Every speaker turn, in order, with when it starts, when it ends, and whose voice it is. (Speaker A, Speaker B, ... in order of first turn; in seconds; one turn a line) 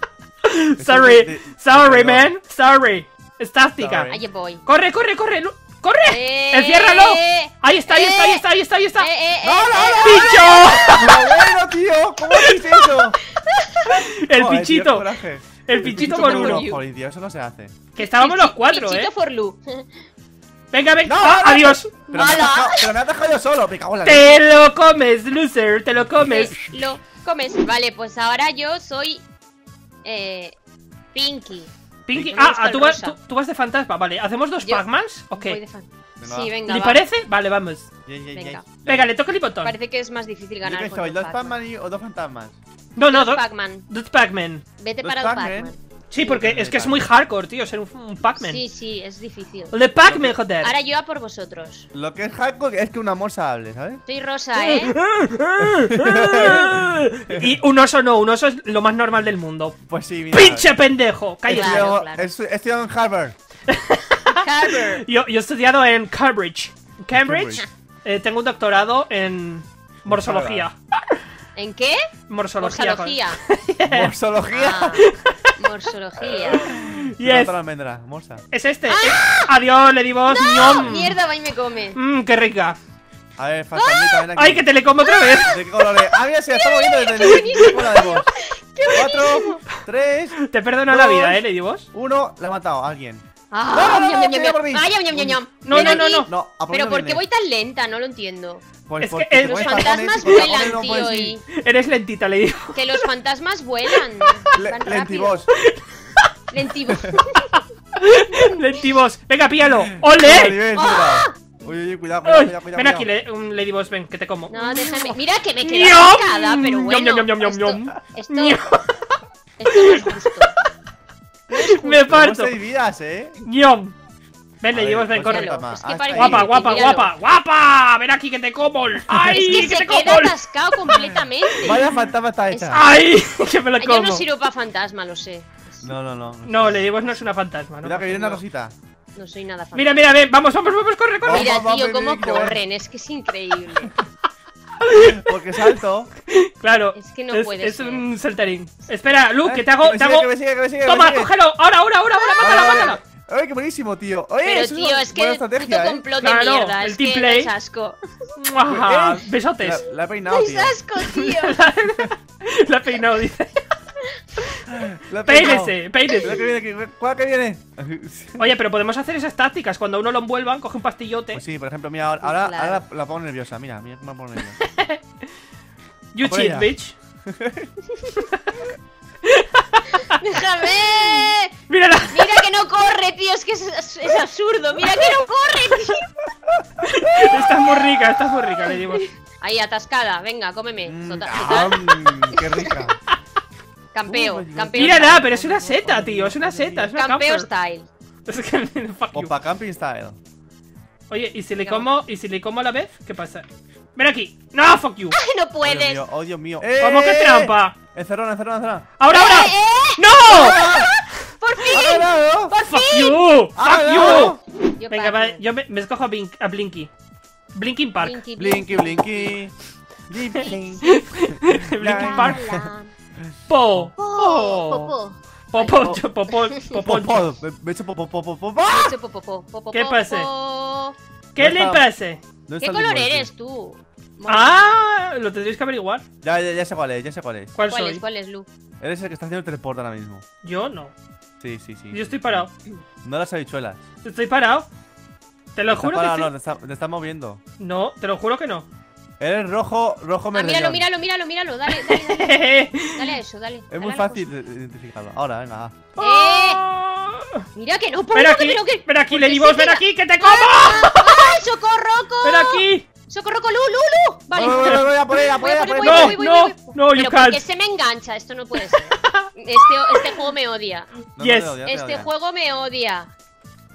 Speaker A: 0.4-4.1
Speaker B: 0.8-2.3
Speaker B: 3.8-4.2
Speaker C: 4.1-4.6
Speaker A: 4.6-9.1
Speaker C: 6.0-8.4
Speaker C: 9.0-11.2
Speaker B: 9.4-13.2
Speaker A: 10.0-11.3
Speaker C: 12.5-13.9
Speaker A: 13.9-15.1
Speaker B: 14.3-17.8
Speaker A: 15.6-16.6
Speaker C: 15.8-16.8
Speaker A: 17.9-19.1
Speaker C: 18.0-19.9
Speaker A: 20.7-21.9
Speaker B: 21.0-24.4
Speaker C: 22.1-23.0
Speaker A: 24.0-26.6
Speaker C: 26.2-29.2
Speaker C: 30.0-30.5
Speaker C: 31.1-33.2
Speaker A: 32.1-35.6
Speaker C: 34.6-37.0
Speaker B: 36.2-36.5
Speaker A: 36.7-37.9
Speaker B: 38.0-39.1
Speaker C: 38.3-38.7
Speaker A: 38.9-39.7
Speaker C: 39.6-41.6
Speaker B: 40.6-42.6
Speaker A: 43.0-44.6
Speaker C: 43.1-43.9
Speaker C: 44.8-45.8
Speaker B: 45.0-47.0
Speaker A: 46.1-48.6
Speaker C: 48.4-49.7
Speaker A: 49.7-50.7
Speaker B: 50.0-50.4
Speaker C: 50.6-51.9
Speaker B: 51.9-54.0
Speaker C: 54.0-55.0
Speaker A: 54.5-59.8
Speaker B: 55.6-57.5
Speaker B: 59.9-60.7
Speaker A: 60.3-61.9
Speaker B: 61.5-63.3
Speaker C: 61.5-62.3
Speaker A: 63.7-70.8
Speaker C: 64.3-65.0
Speaker B: 67.1-67.6
Speaker B: 70.0-70.7
Speaker C: 71.5-72.0
Speaker A: 72.3-74.1
Speaker C: 72.6-73.4
Speaker B: 73.9-75.0
Speaker C: 74.5-76.7
Speaker A: 75.0-75.3
Speaker A: 76.4-77.5
Speaker B: 76.5-78.4
Speaker A: 78.5-81.2
Speaker C: 78.9-79.5
Speaker C: 80.3-82.0
Speaker A: 81.9-82.8
Speaker B: 83.4-84.6
Speaker C: 83.7-84.3
Speaker A: 84.3-85.6
Speaker C: 85.0-89.6
Speaker B: 85.5-88.2
Speaker A: 87.2-87.5
Speaker B: 88.9-90.4
Speaker A: 90.4-91.9
Speaker B: 90.9-91.4
Speaker B: 91.9-97.2
Speaker C: 93.5-98.6
Speaker A: 95.6-96.3
Speaker B: 98.9-101.4
Speaker A: 99.0-100.4
Speaker C: 99.4-101.4
Speaker A: 101.5-103.0
Speaker C: 102.7-105.4
Speaker B: 104.5-105.5
Speaker A: 105.6-106.3
Speaker C: 106.5-107.6
Speaker B: 106.9-107.2
Speaker A: 108.0-110.6
Speaker B: 110.0-113.1
Speaker C: 110.7-111.3
Speaker A: 112.2-120.2
Speaker C: 114.5-118.6
Speaker C: 119.6-120.5
Speaker C: 121.5-122.0
Speaker A: 121.5-122.5
Speaker B: 121.9-123.4
Speaker A: 123.4-123.9
Speaker A: 124.6-130.3
Speaker B: 124.7-127.0
Speaker C: 125.2-127.1
Speaker C: 129.2-131.8
Speaker A: 131.5-131.7
Speaker B: 131.6-132.9
Speaker C: 132.5-132.8
Speaker A: 132.7-134.2
Speaker C: 133.8-135.9
Speaker B: 135.8-136.8
Speaker A: 136.4-138.4
Speaker B: 137.8-138.7
Speaker C: 139.1-140.0
Speaker A: 139.7-141.5
Speaker B: 141.2-142.6
Speaker C: 141.3-143.9
Speaker A: 144.8-145.8
Speaker B: 144.9-146.1
Speaker A: 146.3-150.3
Speaker C: 146.9-148.1
Speaker B: 149.4-151.3
Speaker A: 150.8-153.0
Speaker C: 152.1-153.0
Speaker B: 152.4-156.0
Speaker C: 154.4-158.3
Speaker A: 156.2-157.5
Speaker A: 158.4-159.8
Speaker B: 158.7-160.8
Speaker C: 160.3-161.6
Speaker A: 161.0-163.7
Speaker B: 164.7-168.5
Speaker A: 165.2-166.4
Speaker A: 168.4-171.4
Speaker B: 171.3-174.6
Speaker C: 172.2-172.8
Speaker A: 174.6-175.0
Speaker A: 176.1-176.9
Speaker B: 176.2-176.7
Speaker B: 177.2-177.7
Speaker A: 178.3-178.6
Speaker A: 179.2-180.2
Speaker C: 180.1-181.5
Speaker A: 180.9-182.4
Speaker C: 182.1-186.1
Speaker A: 186.8-189.1
Speaker B: 187.2-187.5
Speaker C: 189.4-192.8
Speaker B: 190.8-192.9
Speaker C: 193.9-195.2
Speaker B: 194.1-196.9
Speaker A: 194.7-197.5
Speaker C: 196.9-197.9
Speaker A: 198.2-199.3
Speaker B: 199.1-200.2
Speaker A: 201.1-205.2
Speaker C: 201.6-201.8
Speaker C: 205.2-206.0
Speaker B: 205.6-208.9
Speaker A: 206.8-207.8
Speaker A: 209.0-210.6
Speaker C: 209.1-213.2
Speaker B: 210.2-210.9
Speaker B: 211.7-212.5
Speaker A: 212.5-214.4
Speaker B: 213.6-214.4
Speaker C: 213.9-215.4
Speaker A: 214.9-216.9
Speaker A: 217.5-218.2
Speaker C: 218.0-219.4
Speaker B: 218.4-219.5
Speaker B: 220.1-223.9
Speaker C: 220.4-220.9
Speaker A: 220.8-222.5
Speaker C: 221.9-222.9
Speaker A: 223.5-224.9
Speaker C: 224.0-226.8
Speaker A: 225.5-227.3
Speaker B: 226.8-229.0
Speaker C: 228.6-230.9
Speaker A: 229.7-230.3
Speaker A: 231.3-232.2
Speaker B: 231.4-231.8
Speaker B: 232.5-233.3
Speaker C: 232.6-234.6
Speaker A: 234.3-236.0
Speaker B: 236.2-237.6
Speaker A: 237.5-238.0
Speaker C: 237.7-238.5
Speaker B: 238.8-240.2
Speaker A: 240.4-240.9
Speaker B: 241.4-242.4
Speaker A: 241.9-242.5
Speaker B: 243.0-243.8
Speaker A: 244.0-244.7
Speaker A: 245.5-246.3
Speaker B: 245.7-247.4
Speaker A: 247.6-248.7
Speaker B: 249.2-250.8
Speaker C: 250.3-254.3
Speaker A: 251.7-253.1
Speaker B: 253.7-255.8
Speaker A: 255.9-257.4
Speaker C: 256.0-256.6
Speaker C: 257.5-270.9
Speaker A: 258.1-261.3
Speaker A: 262.2-262.9
Speaker B: 264.3-266.2
Speaker A: 265.8-267.4
Speaker A: 269.0-270.1
Speaker B: 271.1-272.1
Speaker A: 271.2-271.6
Speaker C: 271.6-273.1